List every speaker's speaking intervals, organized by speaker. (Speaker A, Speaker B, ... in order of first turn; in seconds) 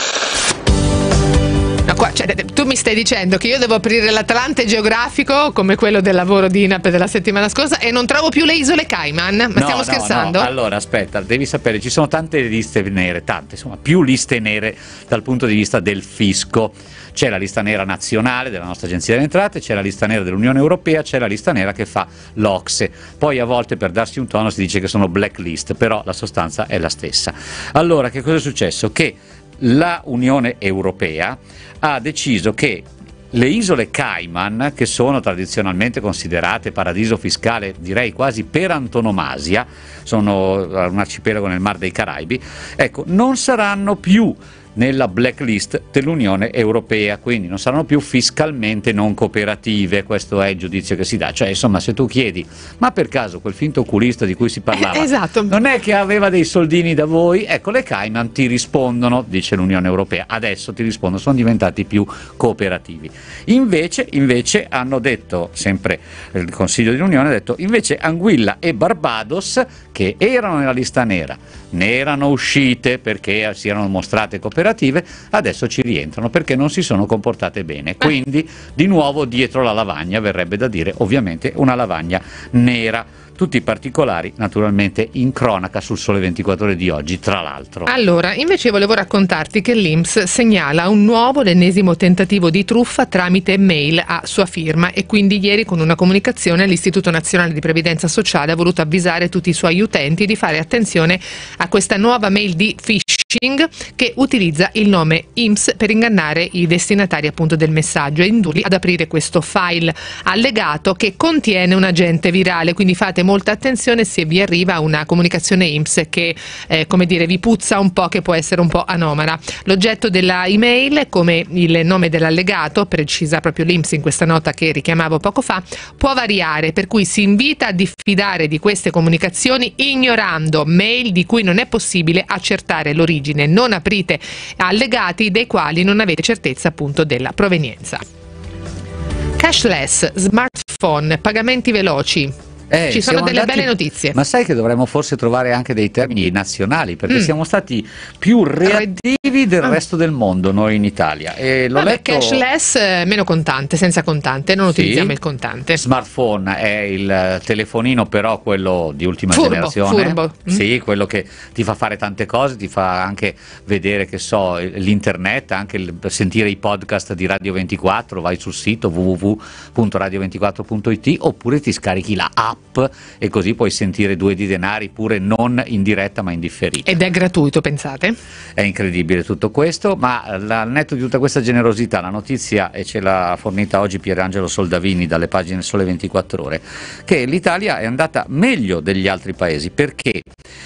Speaker A: 1.9-10.5, 54.7-55.6, 87.9-138.0, 139.4-142.3, 142.9-144.2, 151.8-155.8, 159.3-160.6, 176.8-178.2
Speaker B: 9.6-87.9, 142.7-152.4, 154.7-155.2, 155.7-176.9, 178.6-190.2